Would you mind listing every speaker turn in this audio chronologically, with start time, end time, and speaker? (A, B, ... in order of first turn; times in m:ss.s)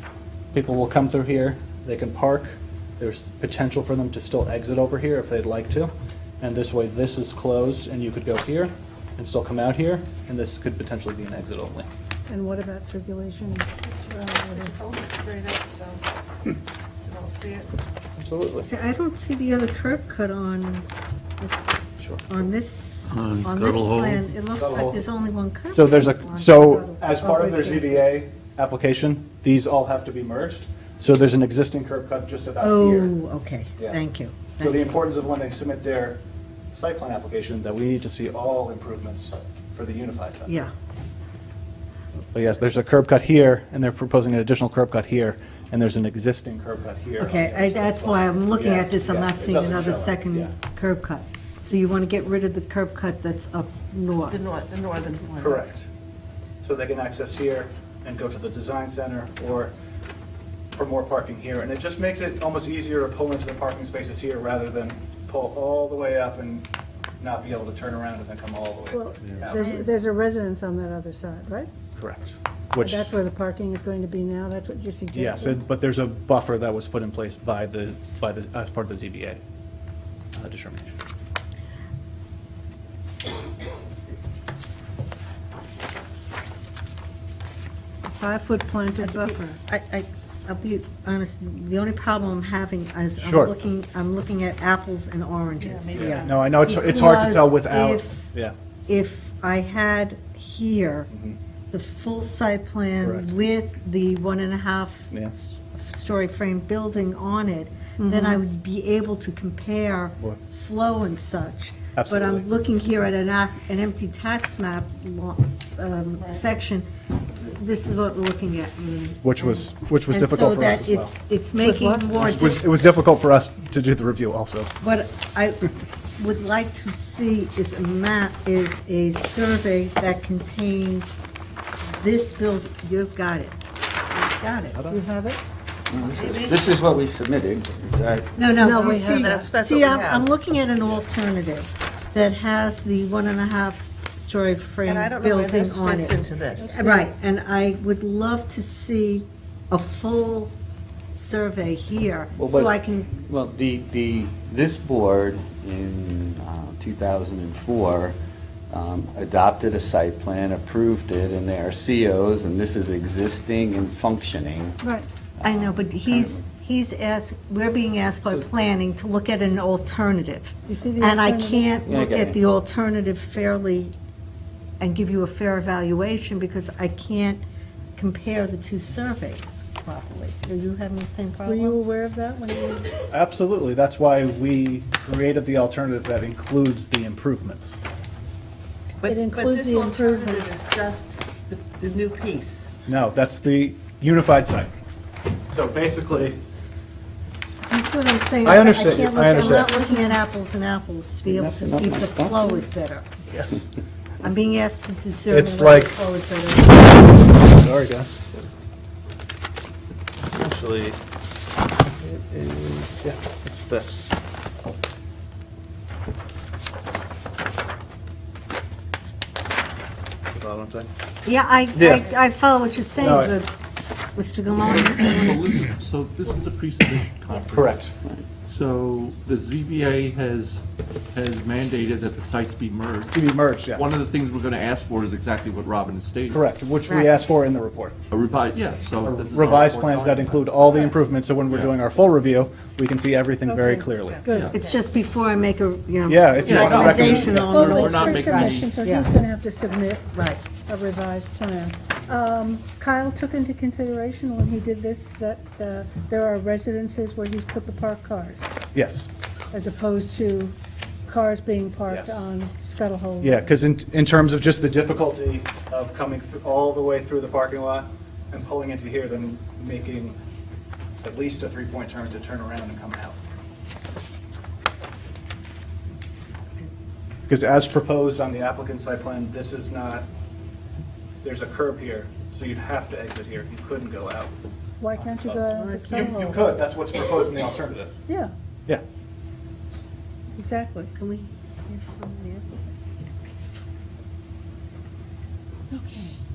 0:00.5-0:11.9 A
0:12.3-0:14.7 B
0:13.8-0:16.0 C
0:17.0-0:17.7 C
0:18.2-0:18.7 A
0:18.7-0:20.8 D
0:21.4-0:21.7 D
0:22.3-0:28.0 D
0:24.5-0:25.0 A
0:25.7-0:33.1 A
0:32.6-0:34.9 D
0:34.6-0:36.2 A
0:36.7-0:40.5 A
0:40.5-0:40.7 D
0:42.3-0:50.5 A
0:47.2-0:54.4 D
0:54.3-0:55.6 C
0:55.4-0:55.8 A
0:56.6-0:59.7 A
1:00.7-1:06.7 A
1:07.2-1:09.8 A
1:08.9-1:11.7 B
1:12.0-1:13.1 A
1:12.8-1:15.6 B
1:15.1-1:19.4 A
1:20.3-1:21.0 A
1:28.0-1:29.5 B
1:29.0-1:38.3 D
1:33.2-1:33.5 A
1:35.6-1:36.5 C
1:35.9-1:38.5 A
1:38.9-1:41.1 D
1:41.1-1:41.4 A
1:41.7-2:02.8 D
1:43.0-1:43.3 A
1:48.0-1:48.4 B
1:51.9-1:52.4 A
1:59.2-2:01.1 A
2:01.6-2:02.1 B
2:02.1-2:04.7 A
2:04.8-2:11.2 D
2:11.9-2:14.8 D
2:14.7-2:15.0 A
2:14.9-2:15.4 B
2:15.9-2:18.3 E
2:16.1-2:16.6 C
2:18.4-2:30.5 D
2:18.6-2:20.3 C
2:18.6-2:19.5 B
2:24.8-2:27.1 C
2:26.6-2:27.1 B
2:31.1-2:33.1 D
2:32.4-2:38.2 E
2:38.7-2:44.8 E
2:44.8-2:45.1 B
2:45.4-2:46.4 E
2:45.4-2:53.9 D
2:50.6-2:51.8 B
2:51.8-2:52.4 E
2:54.8-2:57.4 D
2:58.0-3:01.8 D
3:01.4-3:02.9 B
3:03.1-3:07.8 A
3:09.0-3:12.7 C
3:09.1-3:10.6 B
3:12.9-3:14.7 A
3:15.5-3:16.4 A
3:17.6-3:23.1 D
3:18.4-3:19.8 A
3:21.2-3:22.6 E
3:23.3-3:23.6 A
3:24.2-3:27.2 D
3:25.3-3:26.0 A
3:27.4-3:28.3 A
3:30.2-3:31.0 A
3:32.0-3:34.1 A
3:40.3-3:40.9 A
3:41.2-3:43.5 D
3:41.7-3:42.1 A
3:43.0-3:43.4 A
3:44.1-3:45.6 D
3:44.6-3:47.9 F
3:47.5-3:47.9 A
3:48.4-3:56.4 F
3:53.1-3:53.9 A
3:56.3-3:58.0 A
3:56.9-3:57.2 D
3:58.1-4:00.5 F
3:59.0-4:04.2 A
4:01.5-4:01.7 F
4:03.4-4:04.5 B
4:04.0-4:04.9 C
4:04.5-4:09.1 D
4:06.0-4:07.8 A
4:06.4-4:08.7 F
4:07.1-4:18.5 B
4:10.1-4:10.4 D
4:18.7-4:19.1 A
4:19.5-4:20.5 B
4:21.1-4:23.5 B
4:21.9-4:22.2 A
4:23.2-4:30.2 A
4:31.0-4:33.2 A
4:37.3-4:40.0 A
4:41.2-4:44.4 A
4:44.8-4:46.5 B
4:44.9-4:47.9 A
4:45.6-4:46.2 D
4:48.1-4:48.3 B
4:50.4-4:50.9 B
4:50.9-4:52.7 D
4:55.7-4:56.1 B